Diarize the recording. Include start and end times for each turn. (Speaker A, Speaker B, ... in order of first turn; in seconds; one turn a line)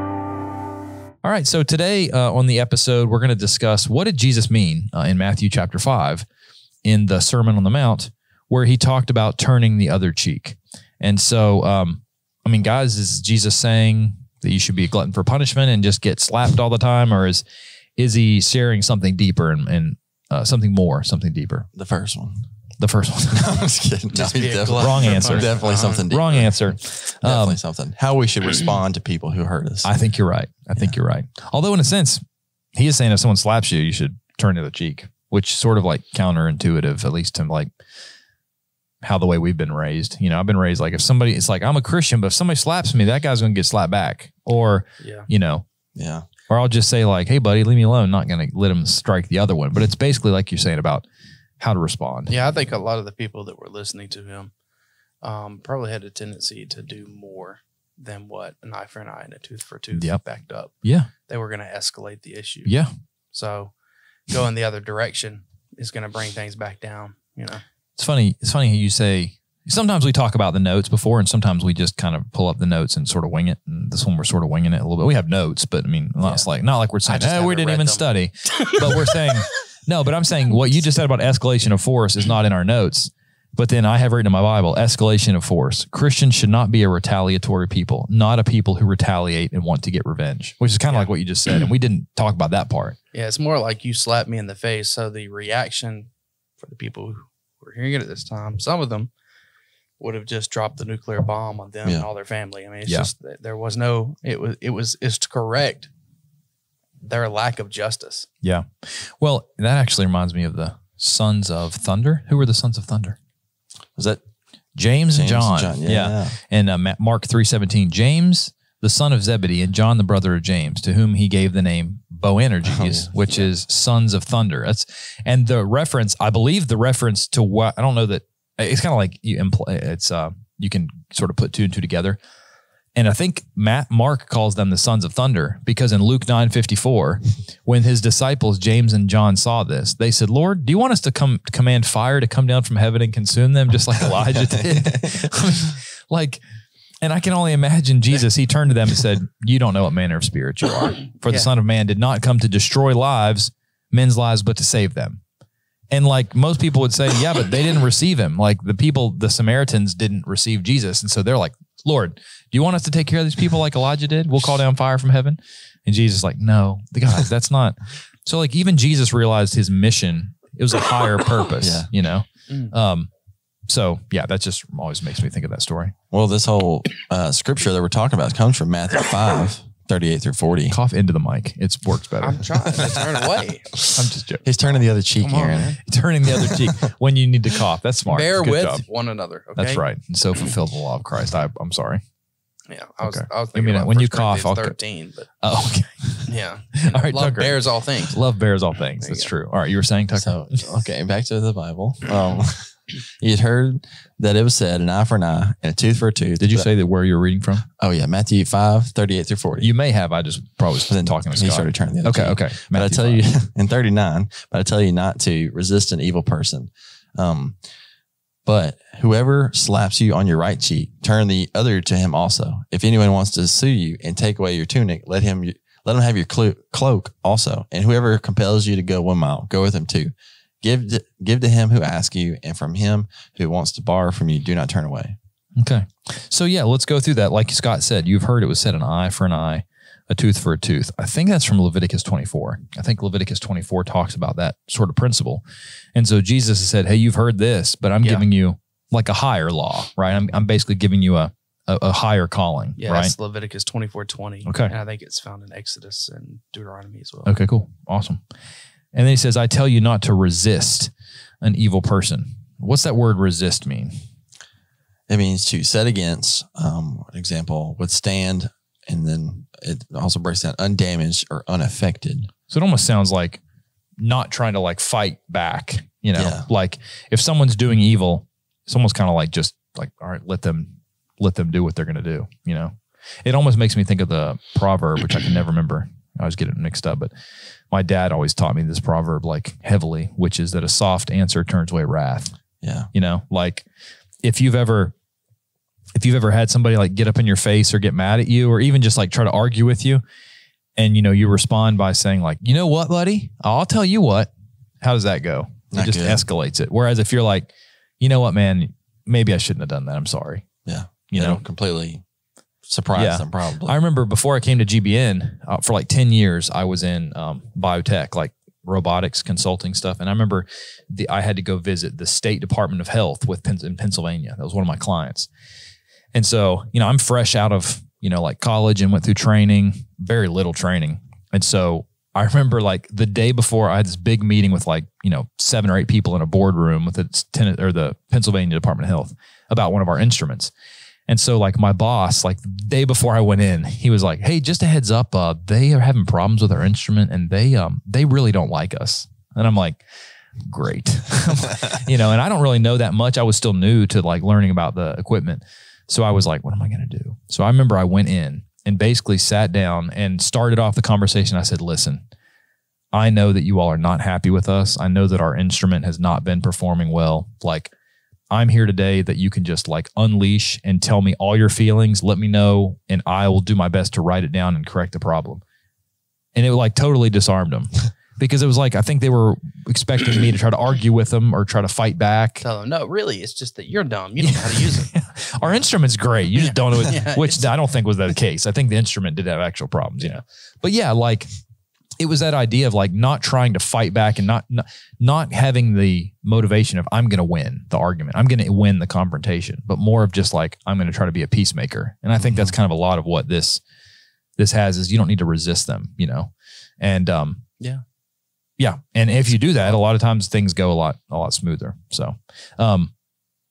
Speaker A: 1.2-6.2
Speaker A: 6.8-17.4
Speaker A: 18.0-21.7
Speaker B: 21.7-22.4
Speaker A: 22.8-23.6
Speaker B: 23.3-29.9
Speaker C: 24.2-26.0
Speaker A: 24.8-27.6
Speaker A: 29.8-32.2
Speaker A: 32.7-37.7
Speaker A: 39.0-45.6
Speaker C: 45.0-45.2
Speaker B: 45.9-46.3
Speaker A: 46.5-51.0
Speaker A: 51.6-52.3
Speaker C: 52.3-54.5
Speaker C: 55.2-62.8
Speaker A: 59.9-60.2
Speaker A: 60.8-61.1
Speaker A: 62.6-62.9
Speaker C: 63.3-63.7
Speaker C: 64.3-67.6
Speaker A: 68.0-93.0
Speaker C: 77.1-79.3
Speaker C: 93.1-96.1
Speaker C: 96.6-99.1
Speaker C: 100.0-105.9
Speaker C: 107.0-108.3
Speaker A: 108.4-113.2
Speaker B: 114.0-114.2
Speaker A: 114.7-132.2
Speaker B: 115.1-116.4
Speaker B: 122.7-123.1
Speaker A: 132.9-146.4
Speaker B: 144.2-145.8
Speaker A: 147.0-155.2
Speaker C: 151.2-151.5
Speaker A: 155.9-173.1
Speaker B: 171.6-171.9
Speaker A: 173.7-175.9
Speaker B: 176.1-180.8
Speaker A: 180.7-182.4
Speaker C: 182.2-183.8
Speaker B: 182.7-185.8
Speaker A: 183.9-184.4
Speaker C: 185.2-185.8
Speaker A: 185.8-188.8
Speaker B: 186.3-186.7
Speaker C: 188.1-189.8
Speaker A: 189.6-192.0
Speaker C: 192.7-195.3
Speaker A: 193.0-194.8
Speaker A: 195.4-196.3
Speaker C: 196.2-198.2
Speaker A: 196.8-200.7
Speaker C: 199.0-199.3
Speaker B: 200.2-206.7
Speaker A: 206.4-207.7
Speaker B: 207.8-209.7
Speaker A: 209.6-213.2
Speaker B: 210.9-217.6
Speaker B: 218.4-235.2
Speaker A: 235.6-245.4
Speaker A: 245.9-253.1
Speaker C: 252.8-257.3
Speaker A: 254.4-254.7
Speaker A: 257.2-258.2
Speaker A: 258.9-264.0
Speaker B: 265.1-272.3
Speaker A: 272.5-273.4
Speaker A: 274.0-287.1
Speaker B: 276.1-276.5
Speaker A: 287.7-292.3
Speaker B: 292.6-292.9
Speaker A: 292.9-293.6
Speaker A: 294.2-294.9
Speaker A: 295.9-300.0
Speaker A: 300.8-304.3
Speaker A: 304.8-310.4
Speaker B: 305.7-306.2
Speaker B: 310.6-312.0
Speaker A: 311.1-311.4
Speaker B: 312.6-313.8
Speaker A: 312.9-325.3
Speaker A: 326.1-340.5
Speaker A: 341.1-349.8
Speaker A: 350.4-362.0
Speaker A: 362.9-367.7
Speaker A: 368.3-375.4
Speaker A: 376.3-382.4
Speaker C: 382.4-384.9
Speaker A: 384.2-391.3
Speaker C: 386.3-387.5
Speaker A: 392.0-403.6
Speaker B: 402.2-402.5
Speaker A: 404.4-407.4
Speaker A: 408.6-412.9